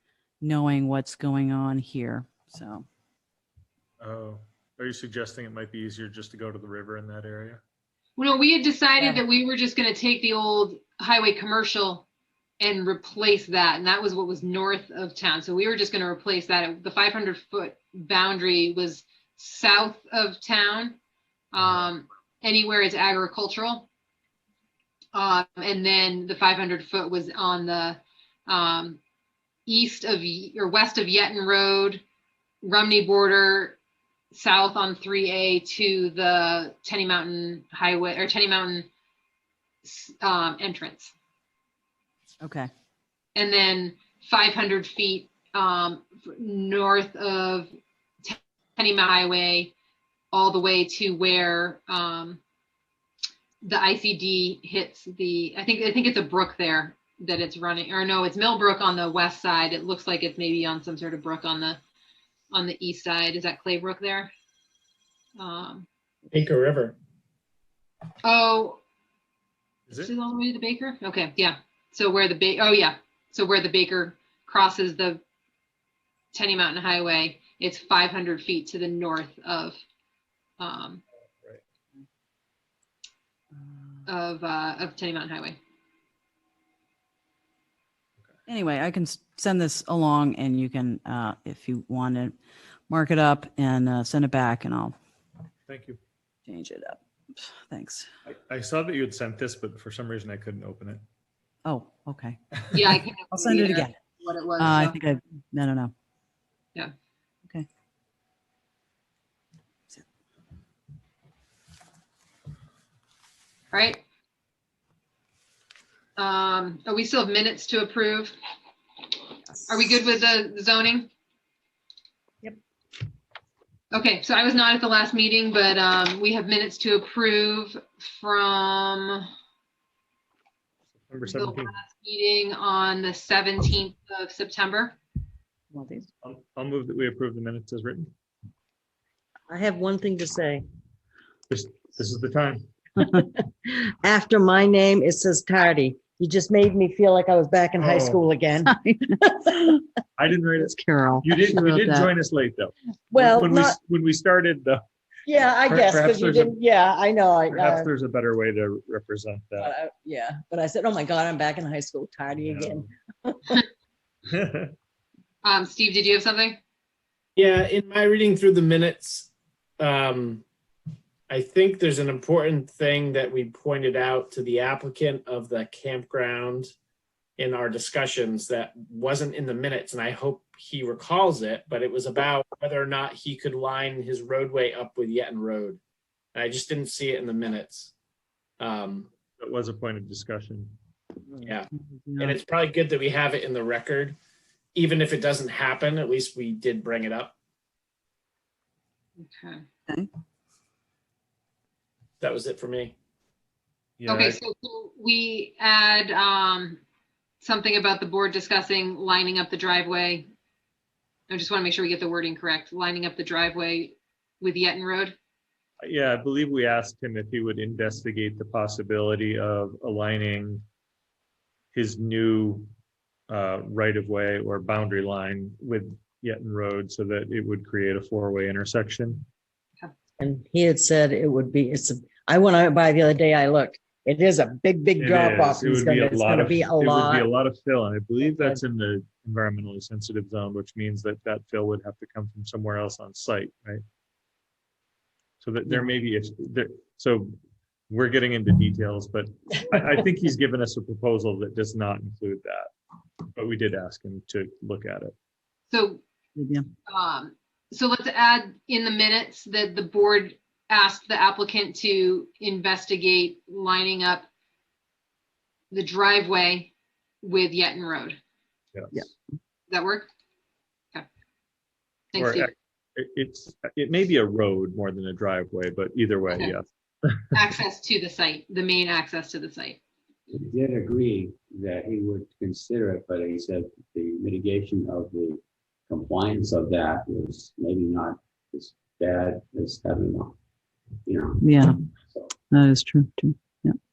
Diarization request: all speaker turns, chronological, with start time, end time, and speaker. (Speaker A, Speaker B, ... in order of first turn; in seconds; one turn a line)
Speaker A: 0.4-2.9
Speaker B: 4.0-7.6
Speaker C: 8.2-12.1
Speaker C: 12.6-21.0
Speaker C: 21.5-23.9
Speaker C: 25.1-29.0
Speaker C: 29.7-32.0
Speaker C: 32.6-33.8
Speaker C: 34.3-38.9
Speaker C: 39.8-41.1
Speaker A: 42.4-42.7
Speaker C: 43.3-47.7
Speaker C: 48.2-49.7
Speaker C: 50.3-52.4
Speaker C: 53.6-61.8
Speaker C: 62.5-64.3
Speaker C: 65.4-65.9
Speaker D: 66.3-66.9
Speaker C: 68.2-68.8
Speaker C: 69.9-75.2
Speaker C: 76.3-79.8
Speaker C: 80.6-81.0
Speaker A: 83.6-84.0
Speaker C: 84.0-85.6
Speaker A: 88.5-92.3
Speaker A: 92.9-94.9
Speaker B: 95.7-96.0
Speaker A: 96.5-98.1
Speaker B: 98.2-101.0
Speaker A: 101.6-102.4
Speaker C: 102.7-105.0
Speaker A: 103.3-104.0
Speaker A: 104.6-105.9
Speaker C: 113.7-114.0
Speaker C: 116.2-118.3
Speaker C: 119.7-121.1
Speaker C: 123.9-129.3
Speaker B: 131.1-131.7
Speaker C: 131.3-135.0
Speaker A: 135.7-136.1
Speaker B: 136.2-138.1
Speaker E: 139.5-140.6
Speaker B: 141.5-142.7
Speaker E: 143.1-149.8
Speaker B: 147.8-148.3
Speaker A: 148.6-149.2
Speaker B: 150.2-154.8
Speaker A: 150.8-152.1
Speaker E: 153.1-153.8
Speaker E: 155.3-157.9
Speaker B: 155.6-156.6
Speaker B: 157.5-159.7
Speaker E: 159.6-163.6
Speaker B: 162.3-162.9
Speaker B: 164.3-164.7
Speaker C: 165.4-166.6
Speaker D: 167.3-170.4
Speaker D: 171.3-176.7
Speaker D: 177.4-185.8
Speaker D: 186.3-187.9
Speaker D: 188.6-189.1
Speaker B: 189.4-190.8
Speaker A: 191.3-192.4
Speaker D: 191.4-194.2
Speaker D: 194.7-197.3
Speaker C: 199.2-199.6
Speaker D: 202.2-202.9
Speaker B: 204.0-204.4
Speaker C: 204.1-206.8
Speaker C: 207.4-210.3
Speaker C: 211.3-215.2
Speaker B: 215.8-220.6
Speaker B: 221.7-222.7
Speaker B: 223.3-229.2
Speaker E: 230.2-237.3
Speaker B: 235.0-243.8
Speaker B: 245.4-247.3
Speaker B: 247.9-252.7
Speaker B: 253.3-255.1
Speaker C: 255.7-256.0
Speaker A: 256.4-256.7
Speaker C: 256.9-264.3
Speaker C: 265.7-266.7
Speaker C: 267.2-268.2
Speaker B: 268.7-269.1
Speaker C: 269.7-270.1
Speaker C: 272.1-272.5
Speaker B: 272.1-277.3
Speaker C: 277.3-279.8
Speaker F: 280.3-290.4
Speaker F: 291.1-291.4
Speaker A: 291.4-291.7
Speaker A: 292.4-293.8